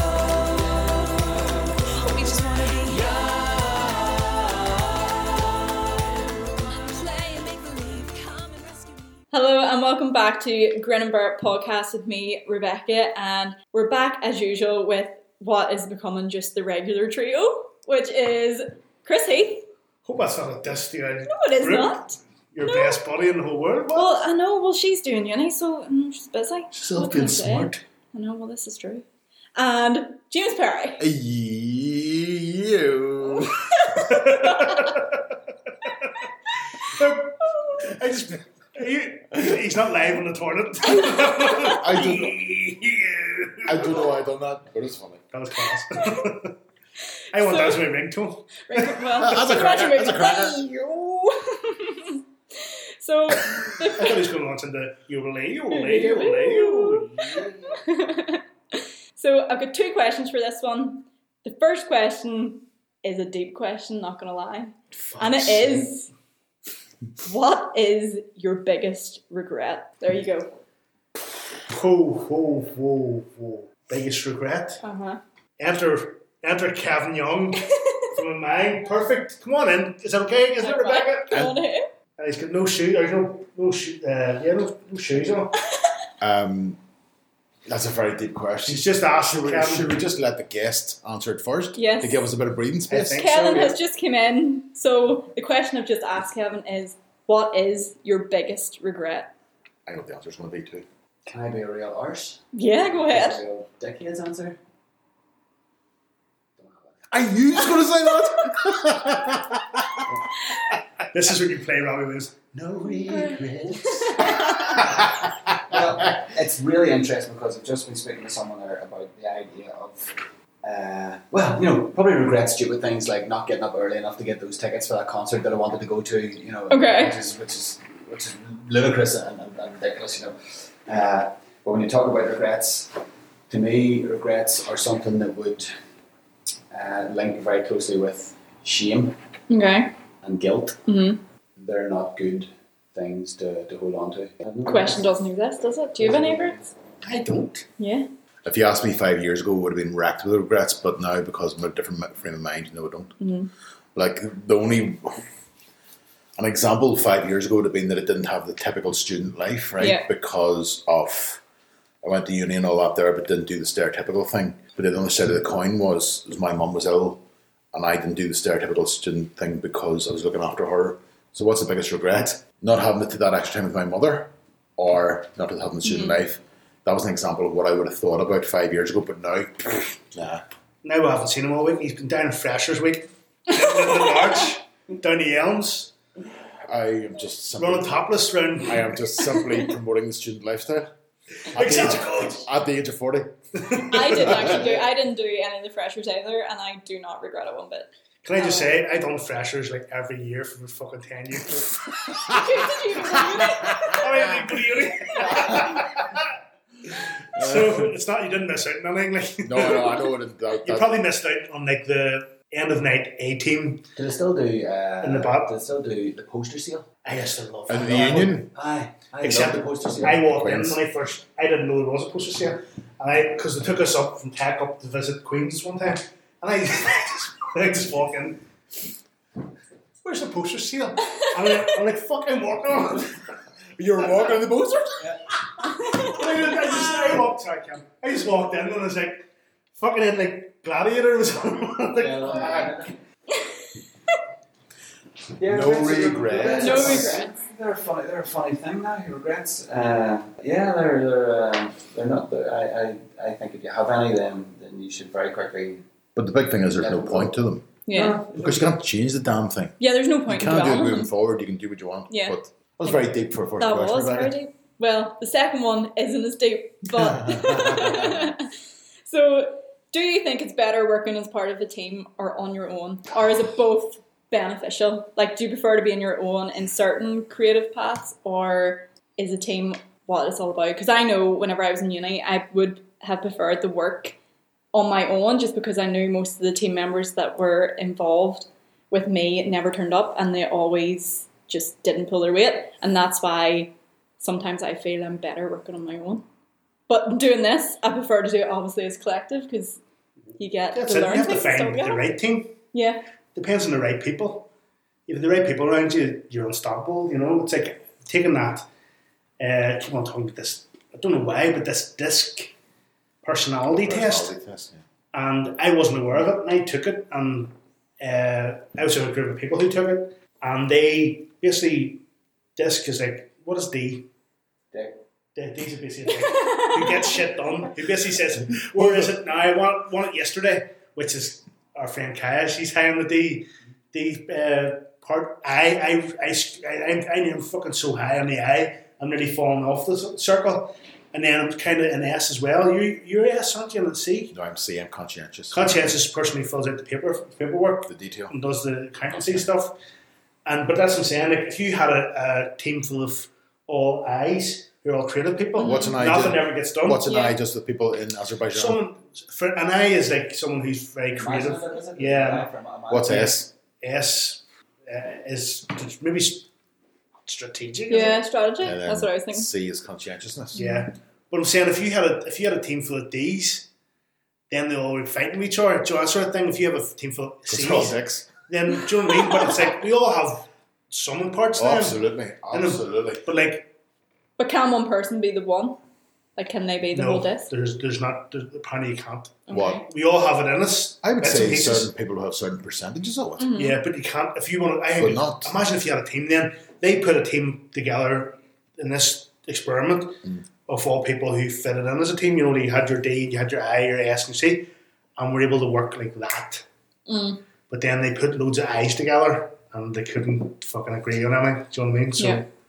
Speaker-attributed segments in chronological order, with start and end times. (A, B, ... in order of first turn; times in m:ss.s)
0:01.8-0:04.3 A
0:05.0-0:09.1 A
0:09.3-0:19.7 B
0:20.0-0:22.0 C
0:21.3-0:23.0 B
0:22.5-0:24.3 C
0:23.9-0:29.0 B
0:26.7-0:27.8 C
0:29.6-0:31.0 B
0:31.0-0:33.9 D
0:33.8-0:34.7 B
0:34.0-0:35.0 C
0:36.8-0:44.0 C
0:41.2-0:42.4 D
0:43.6-0:45.2 D
0:45.3-0:46.5 C
0:47.3-0:49.4 C
0:47.4-0:47.9 B
0:48.6-0:54.3 B
0:49.2-0:50.7 D
0:54.0-0:57.5 C
0:55.7-1:06.1 B
1:04.9-1:05.9 C
1:07.2-1:10.5 B
1:11.7-1:14.8 C
1:14.8-1:15.2 B
1:15.6-1:21.4 C
1:20.6-1:21.9 B
1:21.3-1:21.6 D
1:22.2-1:25.6 C
1:26.2-1:26.8 D
1:27.7-1:33.3 D
1:28.6-1:30.0 C
1:31.8-1:32.2 B
1:32.9-1:33.8 C
1:33.1-1:39.3 B
1:39.9-1:40.9 D
1:41.2-1:42.4 E
1:42.5-1:43.4 B
1:43.0-1:44.6 E
1:46.6-1:47.1 E
1:47.1-1:50.0 D
1:51.1-1:53.4 C
1:52.6-1:54.1 E
1:53.0-1:54.7 B
1:55.6-2:12.9 E
2:06.7-2:07.2 B
2:13.5-2:15.7 E
2:16.7-2:19.2 E
2:19.5-2:19.9 B
2:20.2-2:20.8 E
2:20.9-2:21.2 B
2:21.6-2:25.1 E
2:24.7-2:26.7 B
2:26.0-2:26.4 E
2:27.0-2:27.7 C
2:27.8-2:28.1 B
2:28.4-2:33.1 D
2:33.2-2:33.5 B
2:34.0-2:35.3 D
2:36.4-2:41.4 D
2:39.8-2:40.0 B
2:42.0-2:47.2 D
2:47.7-3:00.4 D
2:55.9-2:56.2 B
3:00.8-3:05.9 C
3:06.7-3:08.1 D
3:07.6-3:08.9 C
3:08.6-3:10.9 D
3:11.5-3:12.5 C
3:11.5-3:14.7 D
3:13.7-3:14.5 C
3:13.8-3:18.8 B
3:18.2-3:22.3 C
3:22.1-3:24.2 B
3:22.3-3:24.2 D
3:23.8-3:26.3 C
3:25.2-3:25.8 D
3:25.2-3:25.5 B
3:26.9-3:30.0 C
3:27.4-3:27.9 D
3:29.4-3:30.9 D
3:30.6-3:33.8 C
3:34.0-3:36.9 E
3:35.0-3:35.5 C
3:37.0-3:38.4 C
3:37.7-3:38.5 D
3:38.5-3:40.2 E
3:39.2-3:48.4 C
3:40.1-3:40.8 D
3:50.0-3:53.3 C
3:53.8-3:55.0 D
3:55.9-3:59.2 C
3:59.8-4:02.8 C
4:02.0-4:03.0 E
4:05.4-4:15.8 E
4:05.5-4:07.2 D
4:06.4-4:07.3 B
4:16.2-4:17.7 D
4:16.8-4:17.3 E
4:17.9-4:18.2 B
4:17.9-4:18.8 E
4:18.4-4:19.8 D
4:19.8-4:21.1 B
4:20.3-4:24.4 D
4:22.1-4:23.0 B
4:23.6-4:28.5 B
4:26.9-4:28.3 D
4:29.1-4:44.2 B
4:44.7-4:56.2 B
4:56.9-4:59.8 B
5:00.4-5:02.1 B
5:00.7-5:02.5 C
5:02.7-5:03.0 B
5:03.4-5:04.5 C
5:05.1-5:08.7 C
5:09.4-5:12.5 C
5:13.2-5:14.3 C
5:13.7-5:14.8 D
5:15.1-5:22.0 C
5:22.6-5:24.1 C
5:25.4-5:44.3 C
5:28.7-5:29.2 D
5:44.3-5:46.0 D
5:45.5-5:49.8 C
5:47.9-5:48.4 D
5:49.1-5:49.5 D
5:50.4-5:57.1 C
5:55.6-5:55.9 B
5:55.6-5:58.8 D
5:57.1-5:57.4 B
5:58.5-6:02.5 C
6:01.1-6:03.3 E
6:02.9-6:03.5 D
6:03.0-6:06.5 C
6:07.2-6:08.2 C
6:07.9-6:09.5 B
6:08.6-6:10.6 D
6:10.6-6:10.9 B
6:10.6-6:13.7 C
6:14.5-6:22.0 C
6:17.5-6:18.3 D
6:21.5-6:23.2 D
6:22.5-6:23.7 C
6:24.4-6:25.8 B
6:26.4-6:27.5 B
6:26.9-6:31.9 C
6:29.5-6:29.8 B
6:29.5-6:29.8 D
6:31.0-6:33.5 D
6:33.4-6:33.8 B
6:33.6-6:44.7 C
6:34.9-6:35.6 D
6:45.2-6:46.6 C
6:47.1-6:47.4 B
6:47.7-6:52.5 C
6:52.2-6:52.4 B